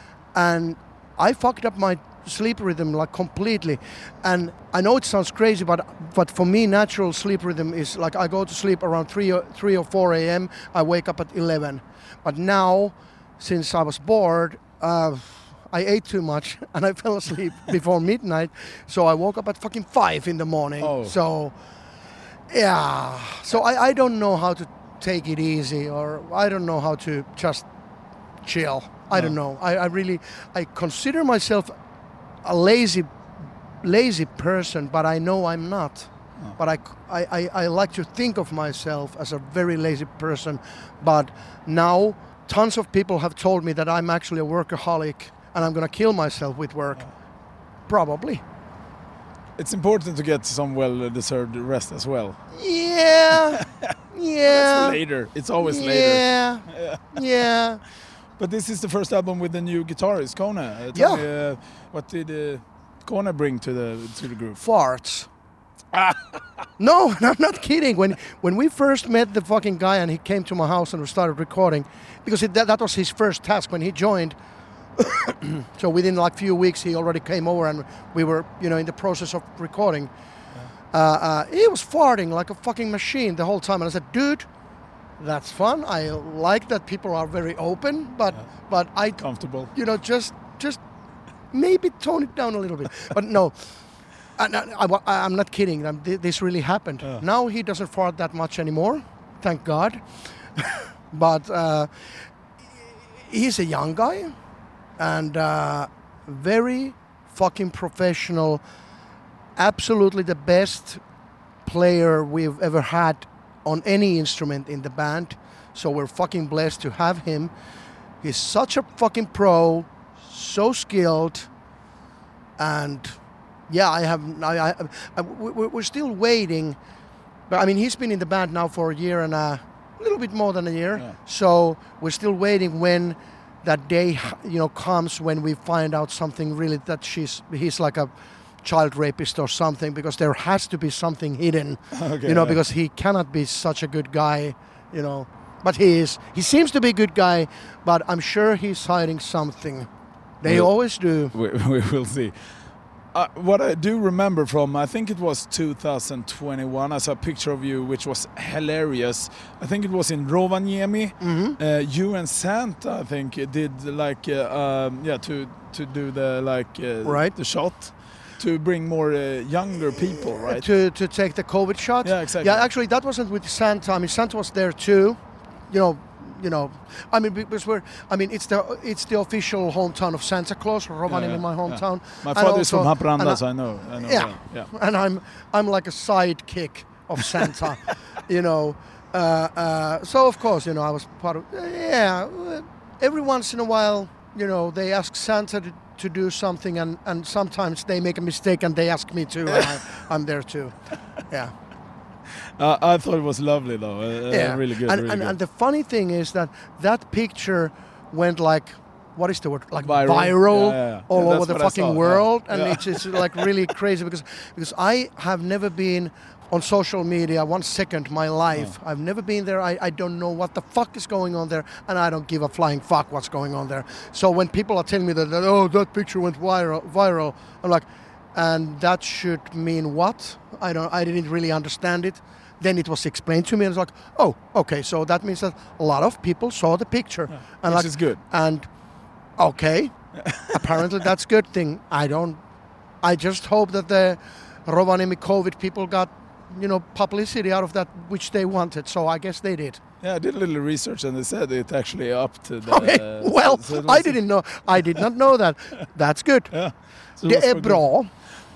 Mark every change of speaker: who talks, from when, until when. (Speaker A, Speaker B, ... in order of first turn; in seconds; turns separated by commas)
Speaker A: 0.3-21.5, Speaker B: 20.8-21.2, Speaker A: 22.5-27.7, Speaker A: 28.4-31.7, Speaker A: 32.4-33.1, Speaker A: 33.8-47.1, Speaker A: 47.9-48.4, Speaker B: 49.6-52.4, Speaker A: 52.5-55.0, Speaker B: 53.6-53.9, Speaker B: 54.5-57.2, Speaker A: 55.6-57.8, Speaker B: 58.4-64.6, Speaker A: 60.9-61.2, Speaker A: 64.6-65.3, Speaker B: 65.9-66.3, Speaker A: 66.8-74.4, Speaker A: 75.0-80.1, Speaker A: 80.9-84.5, Speaker A: 85.2-90.8, Speaker B: 89.2-89.7, Speaker A: 91.5-104.3, Speaker A: 105.0-108.6, Speaker A: 109.6-111.0, Speaker A: 111.7-117.5, Speaker A: 118.2-121.5, Speaker A: 122.6-126.8, Speaker A: 127.5-149.9, Speaker B: 141.9-142.6, Speaker A: 150.4-151.3, Speaker B: 150.4-150.7, Speaker B: 151.3-170.7, Speaker A: 161.2-161.6, Speaker A: 167.0-167.3, Speaker A: 170.4-183.4, Speaker B: 172.0-172.7, Speaker B: 181.1-184.7, Speaker A: 184.0-201.5, Speaker B: 202.6-205.3, Speaker A: 204.3-238.7, Speaker B: 209.8-213.5, Speaker B: 237.6-238.2, Speaker A: 239.4-239.9, Speaker B: 240.2-240.6, Speaker A: 240.5-242.4, Speaker A: 243.0-249.8, Speaker B: 250.0-254.2, Speaker A: 252.7-256.6, Speaker B: 256.5-257.9, Speaker A: 257.2-258.1